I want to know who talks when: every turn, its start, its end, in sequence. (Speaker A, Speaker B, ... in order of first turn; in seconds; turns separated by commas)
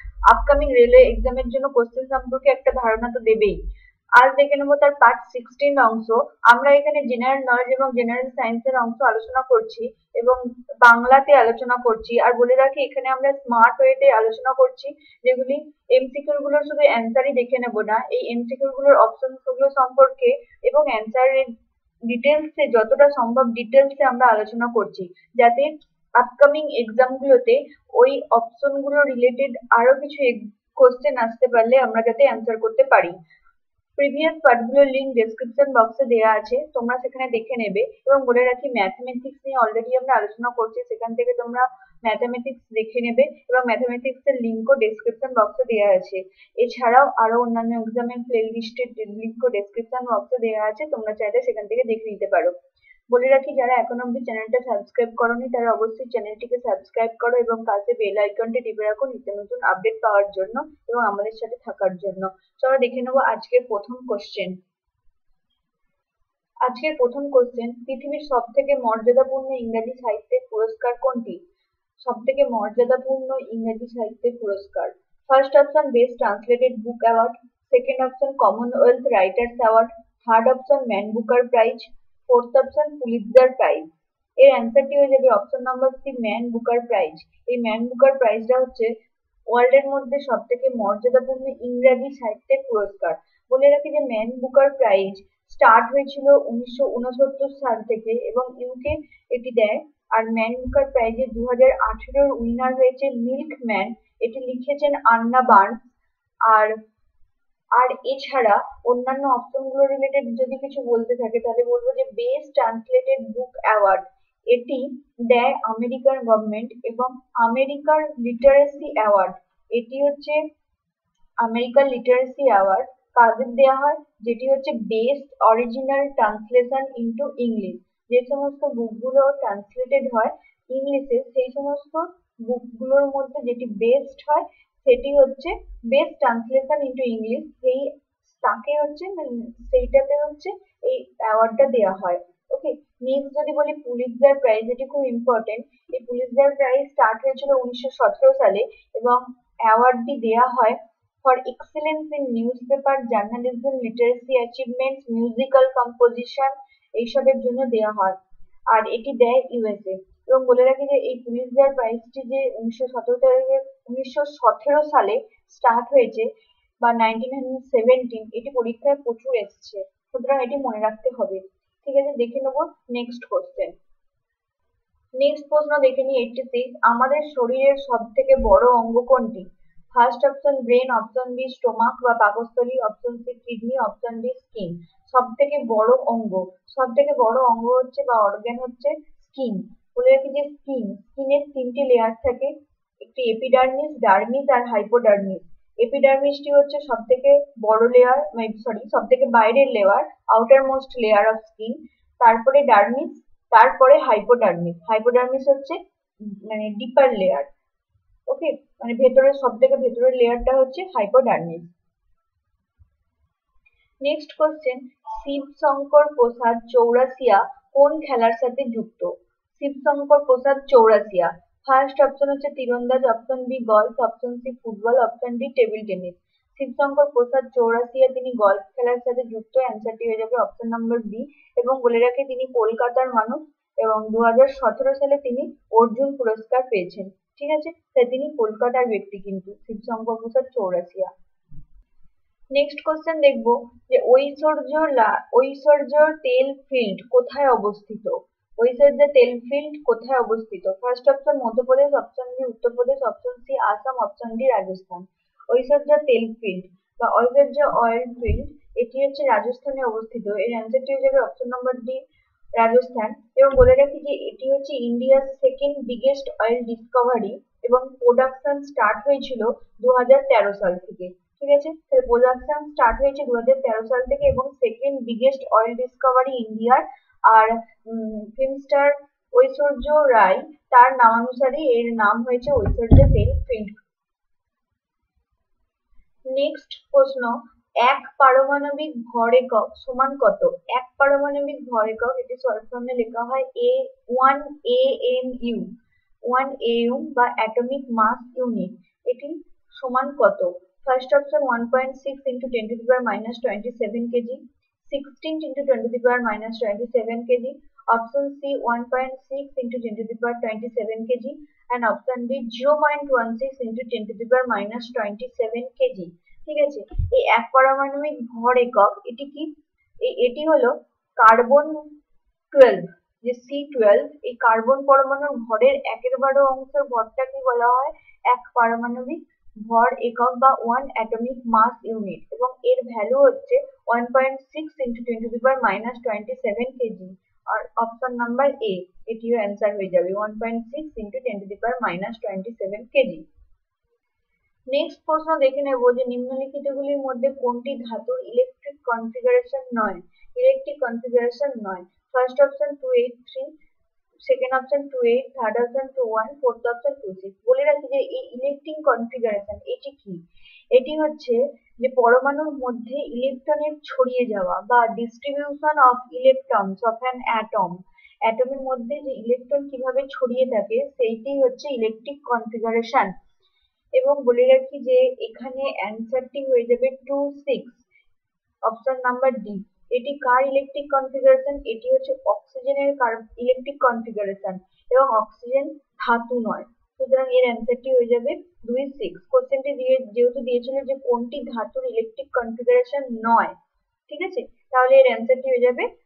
Speaker A: 0.3-3.6, Speaker A: 4.2-21.5, Speaker A: 22.1-33.2, Speaker A: 34.0-52.5, Speaker A: 53.1-64.6, Speaker A: 66.6-71.4, Speaker A: 72.0-88.9, Speaker A: 89.5-105.9, Speaker A: 106.5-106.8, Speaker A: 107.7-120.4, Speaker A: 121.4-158.2, Speaker A: 158.7-166.3, Speaker A: 166.8-173.8, Speaker A: 175.2-207.5, Speaker A: 208.3-211.7, Speaker A: 214.0-241.1, Speaker A: 242.5-262.1, Speaker A: 262.6-283.8, Speaker A: 286.3-319.5, Speaker A: 320.0-321.9, Speaker A: 322.5-343.3, Speaker A: 344.7-353.5, Speaker A: 354.2-360.2, Speaker A: 360.7-373.1, Speaker A: 373.9-377.9, Speaker A: 378.6-393.6, Speaker A: 394.1-395.9